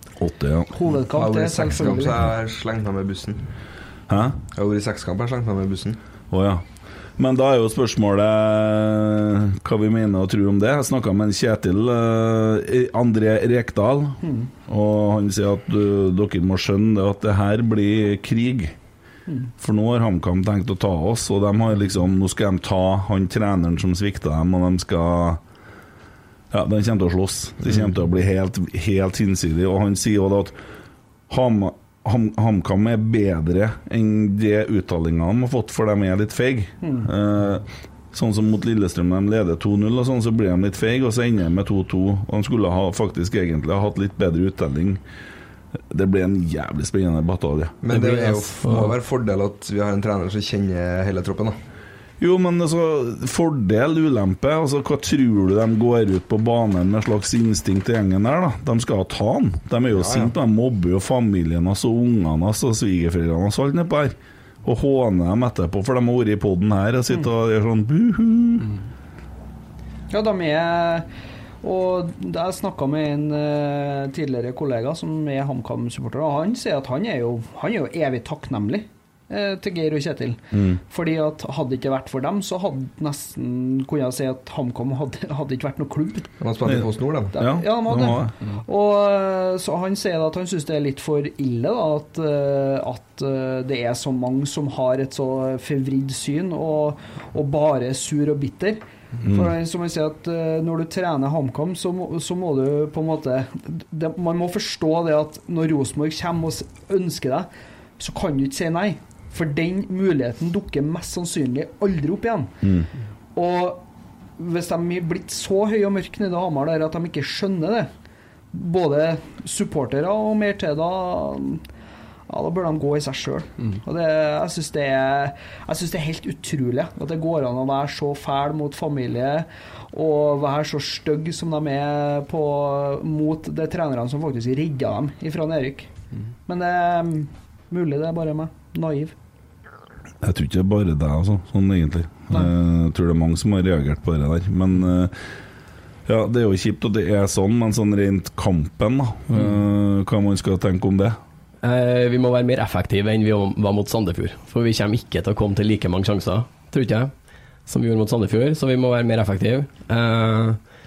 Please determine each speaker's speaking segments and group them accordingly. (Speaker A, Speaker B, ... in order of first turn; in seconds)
Speaker A: 0.2-0.7, 4.1-4.4, 6.3-6.6, 7.2-18.7, 19.6-25.4, 26.5-30.5, 31.3-45.0, 45.9-47.8, 52.2-68.7, 80.5-80.8, 87.3-88.3, 99.2-99.5, 112.6-112.9, 140.2-145.1, 146.1-151.2
Speaker B: 0.7-2.2, 14.2-14.5, 36.8-37.1, 70.1-71.1, 71.6-86.3, 87.3-112.5, 113.3-113.8, 114.4-117.9, 118.5-121.6, 122.3-135.9, 136.5-139.1
Speaker C: 1.1-3.4, 4.5-6.0, 47.8-51.6, 59.9-60.3, 86.4-87.3
Speaker D: 47.9-48.9, 151.6-157.1, 157.7-160.6